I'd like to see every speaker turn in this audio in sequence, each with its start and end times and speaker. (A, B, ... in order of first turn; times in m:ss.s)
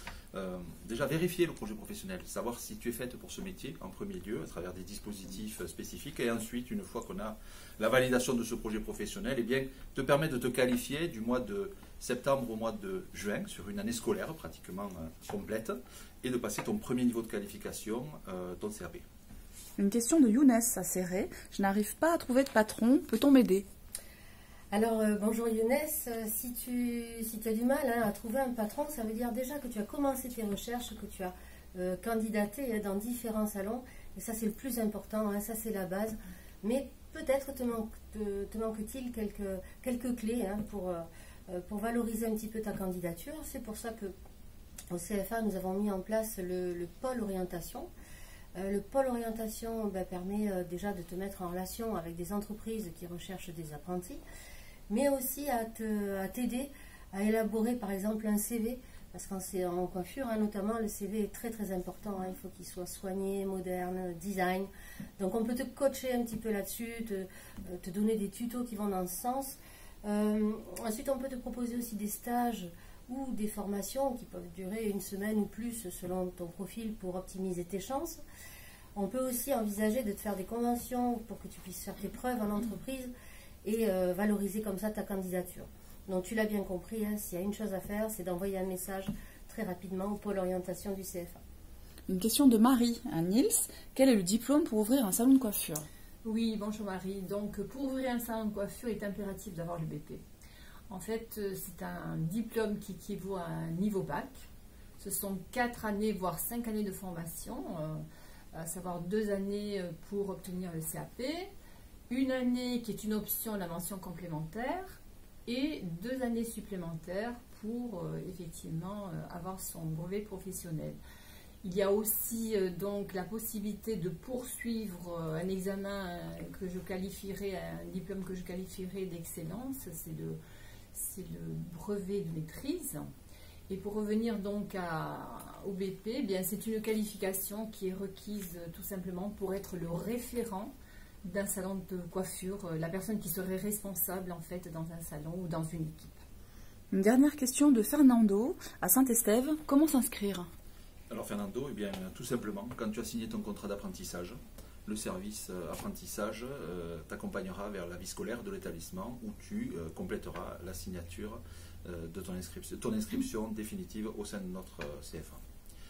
0:00.3-0:19.0 A
0:19.8-0:23.6 B
0:24.7-0:44.1 C
0:44.9-0:47.9 C
0:48.6-0:54.2 C
0:54.9-1:18.2 C
1:19.0-1:23.1 C
1:23.6-1:31.4 C
1:32.1-1:35.8 B
1:36.2-1:40.2 D
1:40.9-1:44.4 D
1:45.0-1:51.5 D
1:52.1-2:01.0 D
2:01.6-2:10.4 D
2:10.9-2:13.1 D
2:13.7-2:26.2 D
2:26.9-2:30.5 B
2:31.1-2:45.4 A